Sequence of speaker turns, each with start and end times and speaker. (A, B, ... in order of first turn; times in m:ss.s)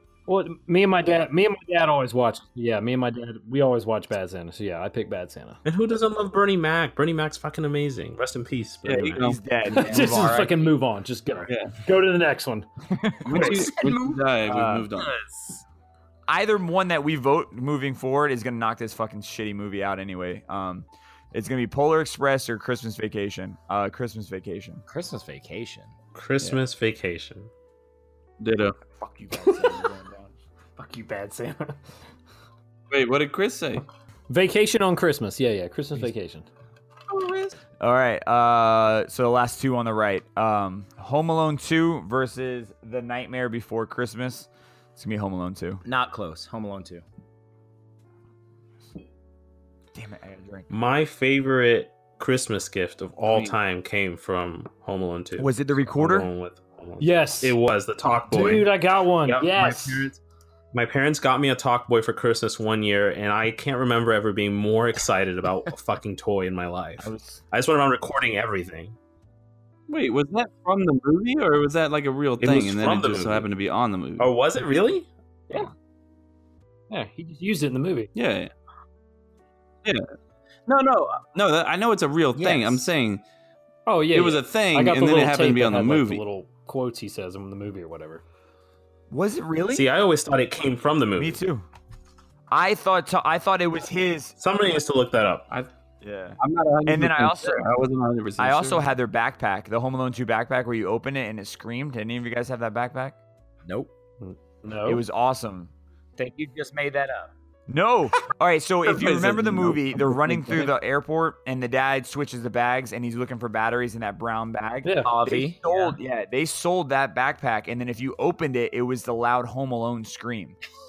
0:00.3-0:05.6 A
0:05.6-0:09.2 B
0:08.8-0:09.4 C
0:08.9-0:10.6 D
0:09.7-0:12.7 A
0:09.8-0:10.7 E
0:11.4-0:11.7 C
0:13.0-0:13.6 D
0:13.2-0:15.1 C
0:13.3-0:15.6 E
0:14.5-0:14.8 D
0:16.3-0:24.8 D
0:24.9-0:25.9 E
0:26.1-0:27.5 B
0:28.4-0:28.8 C
0:29.0-0:30.3 D
0:29.4-0:29.9 A
0:30.8-0:31.8 A
0:32.9-0:33.8 C
0:34.3-0:36.4 A
0:37.1-0:37.5 C
0:37.8-0:45.8 D
0:45.8-0:47.0 E
0:49.9-0:50.7 D
0:50.7-0:58.7 B
0:53.3-0:53.5 C
0:55.4-0:56.3 D
0:57.0-0:57.6 A
0:58.3-1:00.1 A
0:59.2-1:00.2 B
1:00.7-1:08.9 B
1:07.0-1:07.4 D
1:09.9-1:14.3 C
1:12.4-1:13.5 B
1:14.2-1:15.1 B
1:16.9-1:18.1 A
1:18.1-1:18.5 C
1:20.7-1:23.2 C
1:22.3-1:22.9 E
1:23.8-1:28.2 A
1:24.1-1:26.2 C
1:29.1-1:29.9 D
1:29.7-1:31.4 B
1:31.2-1:31.6 D
1:32.5-1:34.3 D
1:34.4-1:35.5 B
1:36.0-1:37.7 D
1:36.4-1:38.9 C
1:38.4-1:43.2 D
1:43.6-1:43.9 E
1:44.2-1:45.0 A
1:44.8-1:45.7 D
1:46.2-1:47.3 E
1:47.7-2:00.6 D
1:48.8-1:50.5 C
1:54.8-1:55.1 A
1:55.0-1:56.0 E